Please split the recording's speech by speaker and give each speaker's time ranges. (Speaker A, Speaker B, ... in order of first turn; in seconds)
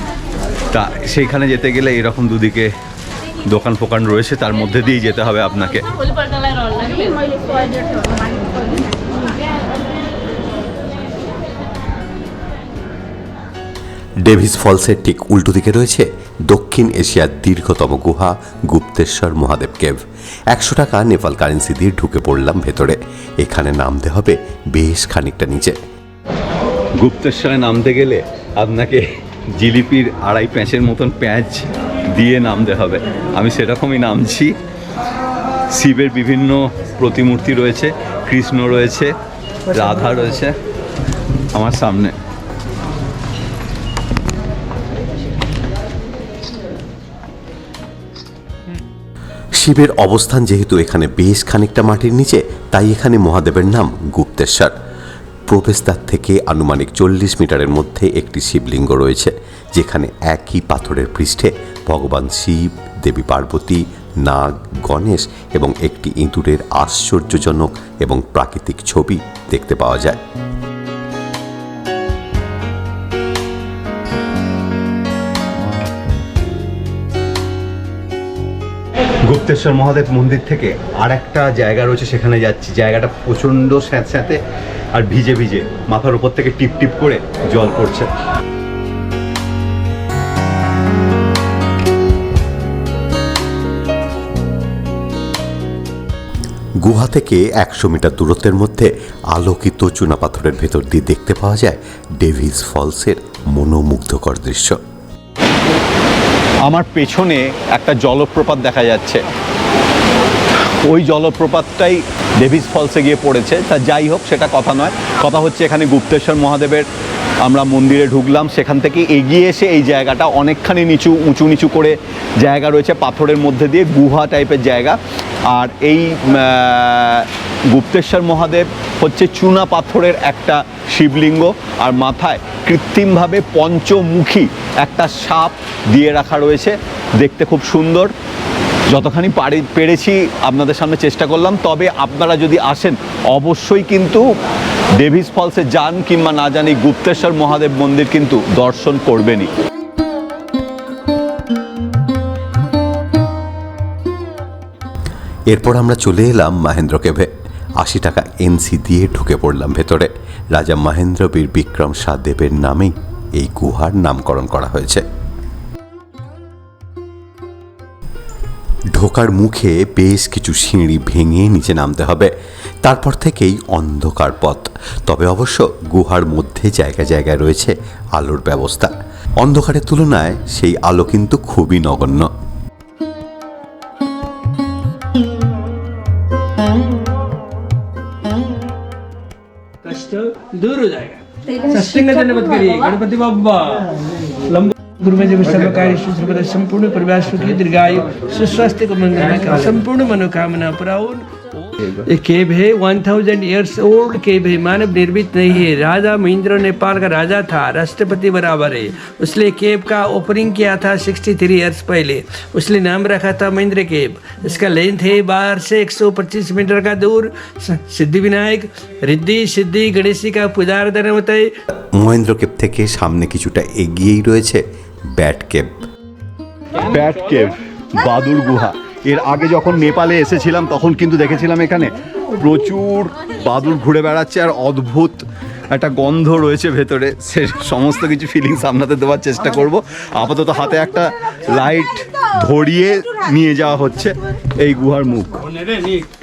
Speaker A: 0.7-2.7, 3.5-5.8, 27.0-34.5, 35.7-39.1, 39.7-40.5, 41.5-42.1, 79.2-84.4, 84.9-88.1, 106.7-109.2, 110.8-116.9, 117.4-125.0, 125.5-138.1, 138.9-144.3, 144.9-149.5, 226.8-245.4
Speaker B: 14.2-25.8, 49.6-54.7, 55.5-70.2, 96.8-104.8, 155.5-165.0, 168.9-172.3, 172.8-182.3, 221.9-224.6, 225.1-225.7
Speaker C: 189.8-193.9, 194.5-221.5